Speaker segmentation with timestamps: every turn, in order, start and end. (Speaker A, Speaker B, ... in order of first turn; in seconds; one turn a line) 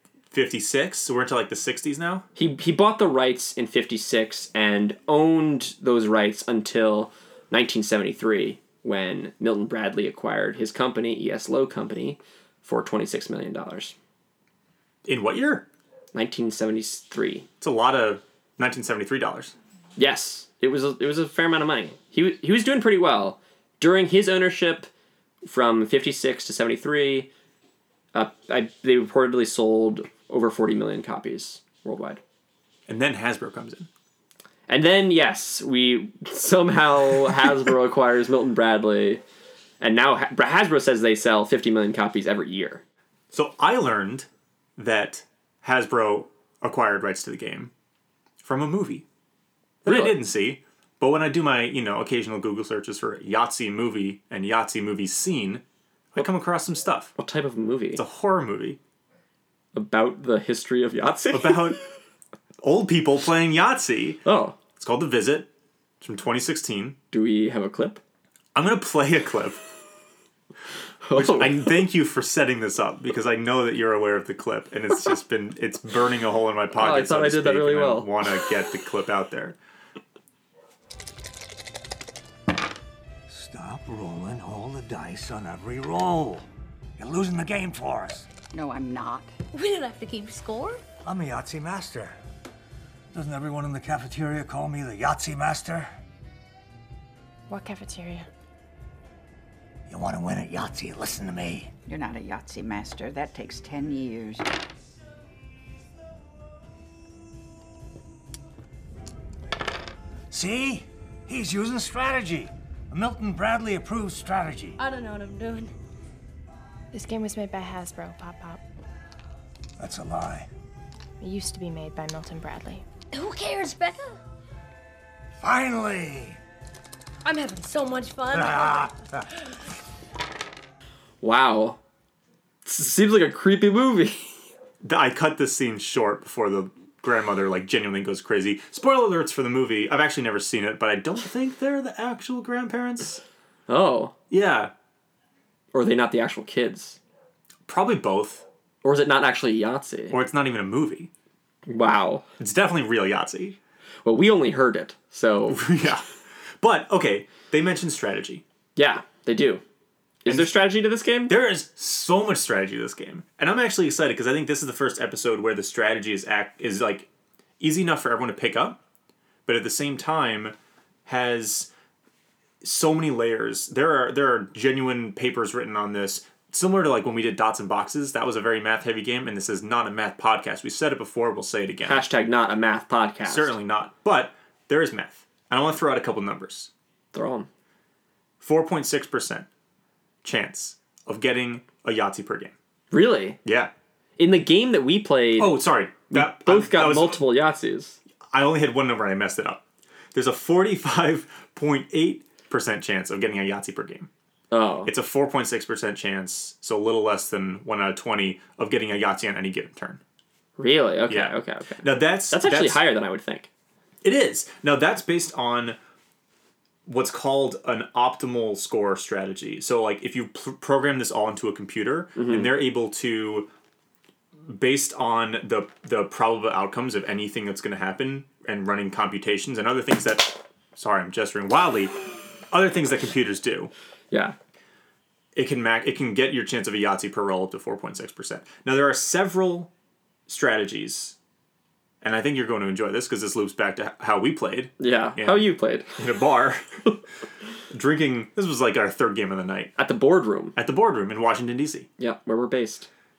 Speaker A: 0.3-2.3
Speaker B: 2.4-13.9
Speaker A: 15.1-15.7
Speaker B: 16.1-17.5
Speaker A: 17.6-19.5
Speaker B: 20.0-24.9
Speaker B: 25.4-27.3
Speaker B: 28.1-32.2
Speaker A: 32.9-33.9
Speaker B: 34.7-39.2
Speaker B: 39.8-42.8
Speaker A: 43.3-47.7
Speaker A: 48.4-49.0
Speaker B: 49.9-50.2
Speaker A: 49.9-57.1
Speaker B: 57.2-58.0
Speaker A: 57.9-58.8
Speaker B: 59.7-61.8
Speaker A: 61.3-61.8
Speaker A: 62.6-64.2
Speaker B: 64.2-64.6
Speaker A: 64.8-65.5
Speaker A: 66.0-67.0
Speaker B: 67.1-68.0
Speaker A: 68.5-69.6
Speaker B: 71.0-71.8
Speaker A: 71.1-79.6
Speaker B: 76.7-78.2
Speaker C: 83.3-86.5
Speaker C: 87.0-88.3
Speaker D: 88.5-89.3
Speaker E: 89.5-90.8
Speaker C: 91.0-92.2
Speaker C: 93.1-95.9
Speaker F: 97.5-98.3
Speaker C: 99.9-101.7
Speaker D: 101.9-104.5
Speaker C: 110.3-114.8
Speaker E: 114.8-115.7
Speaker F: 116.9-118.6
Speaker C: 119.8-120.5
Speaker F: 121.2-122.8
Speaker E: 123.1-124.2
Speaker C: 125.4-126.4
Speaker E: 127.2-128.9
Speaker C: 128.3-129.2
Speaker B: 131.2-131.8
Speaker B: 132.7-134.3
Speaker A: 134.8-143.2
Speaker B: 143.7-144.1
Speaker A: 144.3-144.7
Speaker B: 145.7-147.0
Speaker A: 147.7-148.5
Speaker B: 148.8-150.2
Speaker A: 150.1-151.1
Speaker B: 151.7-152.2
Speaker A: 152.4-153.6
Speaker B: 154.1-155.7
Speaker A: 155.5-156.1
Speaker A: 156.6-158.4
Speaker B: 158.8-159.6
Speaker B: 160.2-161.3
Speaker A: 160.3-160.6
Speaker A: 161.3-167.1
Speaker A: 167.6-168.8
Speaker A: 169.5-170.6
Speaker A: 171.1-171.7
Speaker A: 172.6-182.1
Speaker B: 181.9-183.6
Speaker A: 183.2-186.7
Speaker B: 187.1-187.5
Speaker A: 188.4-189.5
Speaker A: 190.2-192.5
Speaker B: 192.9-193.4
Speaker A: 193.4-193.7
Speaker B: 194.2-198.0
Speaker A: 195.4-197.2
Speaker A: 198.3-199.6
Speaker A: 200.1-204.1
Speaker B: 204.5-204.9
Speaker A: 204.9-210.0
Speaker B: 210.6-213.5
Speaker A: 211.1-212.8
Speaker A: 214.0-215.8
Speaker A: 216.9-223.5
Speaker B: 222.2-222.5
Speaker A: 224.4-233.7
Speaker B: 234.1-234.4
Speaker A: 235.3-239.7
Speaker A: 240.3-241.2
Speaker A: 242.0-246.7
Speaker B: 244.8-246.0
Speaker A: 247.7-249.7
Speaker B: 249.8-250.6
Speaker A: 250.6-251.9
Speaker B: 252.0-252.9